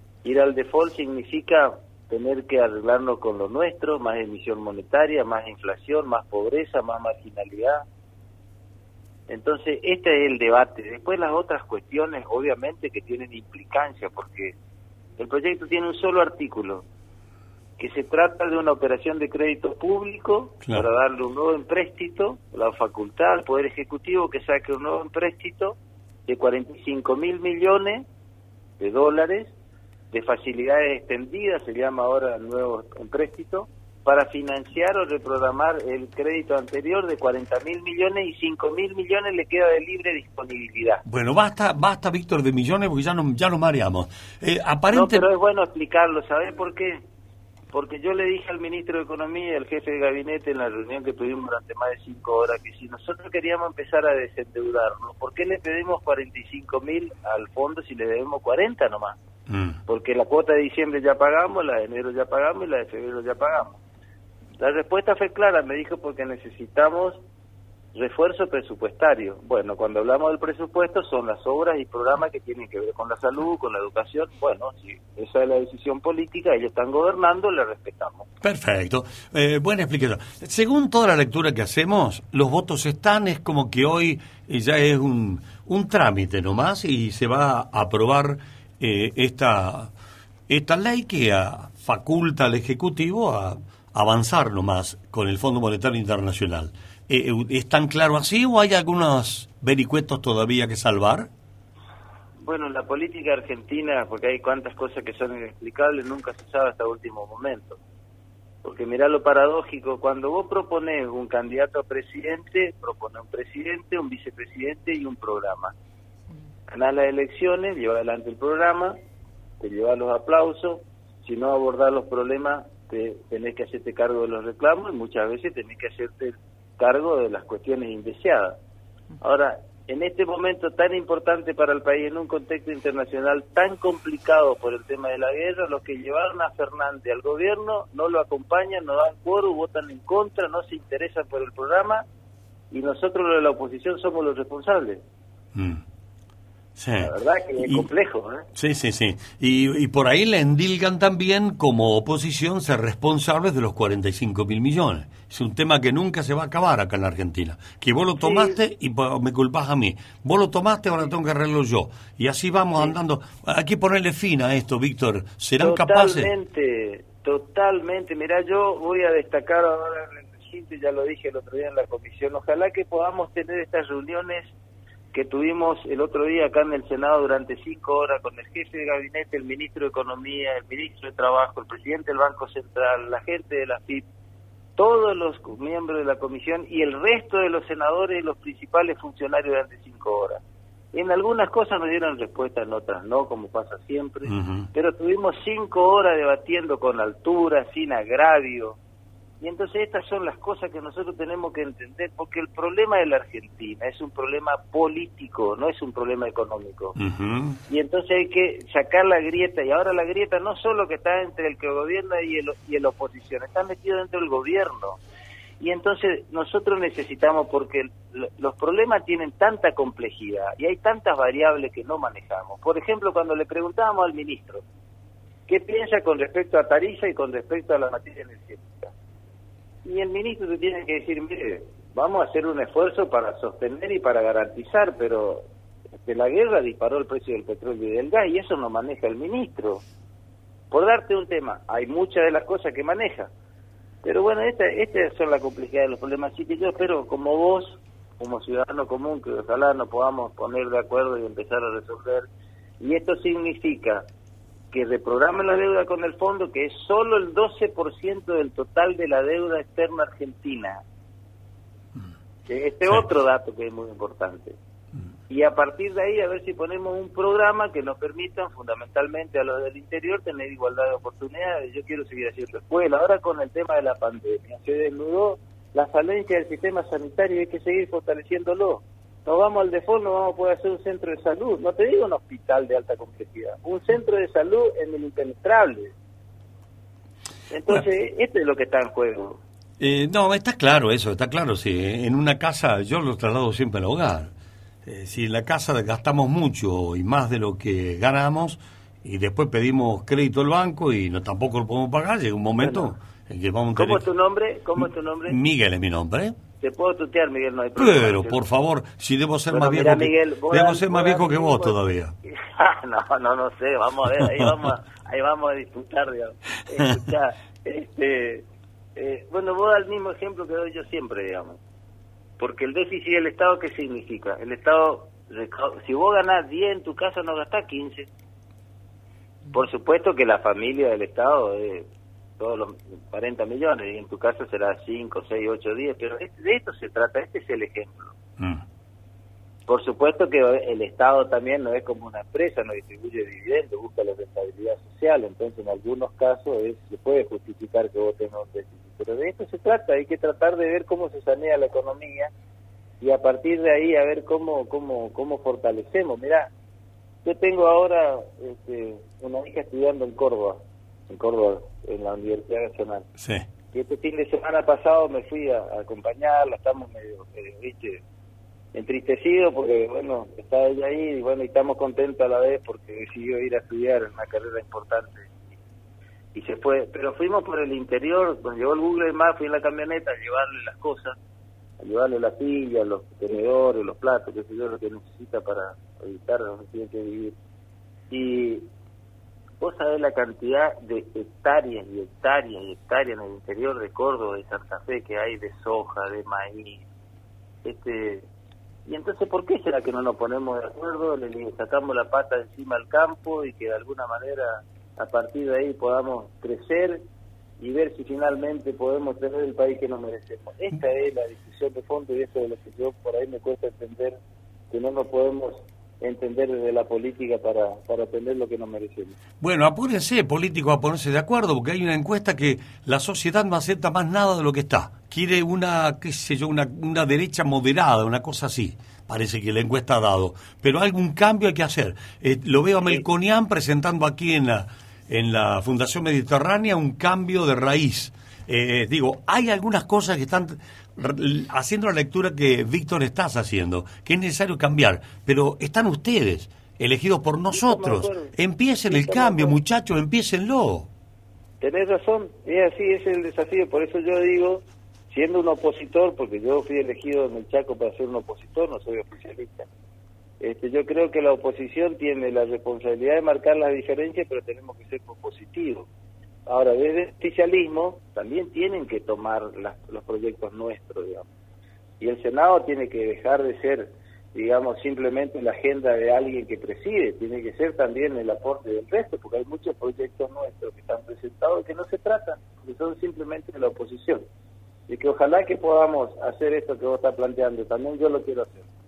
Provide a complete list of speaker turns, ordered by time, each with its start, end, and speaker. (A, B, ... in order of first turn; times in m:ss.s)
0:00.2-0:07.8 A
0:09.3-0:14.5 A
0:15.2-0:16.8 A
0:17.8-0:25.8 A
0:26.3-0:28.0 A
0:28.8-0:29.5 A
0:30.1-0:41.0 A
0:41.0-0:45.3 B
0:44.9-0:47.0 A
0:47.7-0:59.2 A
0:59.5-0:59.8 B
0:59.9-1:03.8 A
1:04.6-1:07.2 A
1:07.9-1:18.3 A
1:18.4-1:29.9 B
1:30.5-1:41.3 B
1:42.4-1:47.8 A
1:48.6-1:55.7 A
1:56.7-1:59.0 A
1:59.6-2:08.6 A
2:09.2-2:22.0 A
2:22.7-2:25.0 A
2:25.5-2:25.8 B
2:26.8-2:27.8 B
2:27.0-2:28.4 A
2:28.6-2:46.3 B
2:38.2-2:38.6 A
2:45.6-2:54.5 A
2:55.1-3:04.0 A
3:04.8-3:10.4 A
3:10.9-3:18.8 A
3:14.3-3:14.7 B
3:19.4-3:26.9 A
3:27.0-3:27.6 B
3:27.7-3:35.0 A
3:35.6-3:44.6 A
3:45.5-3:48.9 A
3:49.8-3:55.4 A
3:56.0-3:59.8 A
4:00.7-4:03.3 A
4:04.0-4:12.3 A
4:12.8-4:14.0 A
4:14.7-4:20.8 A
4:22.5-4:24.6 A
4:25.3-4:45.9 A
4:47.5-4:49.4 A
4:49.8-4:54.3 B
4:54.8-5:04.0 B
5:02.6-5:02.9 A
5:03.7-5:05.4 A
5:05.3-5:06.4 B
5:06.6-5:08.4 A
5:07.8-5:12.1 B
5:09.5-5:11.8 A
5:12.3-5:21.6 A
5:22.4-5:28.1 A
5:29.5-5:31.9 A
5:32.4-5:38.1 A
5:39.7-5:52.3 A
5:53.0-5:56.5 A
5:57.2-6:03.1 A
6:03.2-6:03.4 B
6:03.7-6:08.0 A
6:08.7-6:15.4 A
6:16.3-6:21.2 A
6:21.8-6:27.4 A
6:28.1-6:28.7 A
6:29.6-6:36.8 A
6:37.6-6:38.2 A
6:38.8-6:47.0 A
6:47.6-6:54.2 A
6:54.7-6:59.2 A
6:59.4-7:30.9 B
7:27.5-7:28.3 A
7:28.9-7:29.6 A
7:31.6-7:39.7 A
7:40.4-7:45.9 A
7:46.4-7:51.3 A
7:52.0-8:04.2 A
8:04.9-8:08.6 A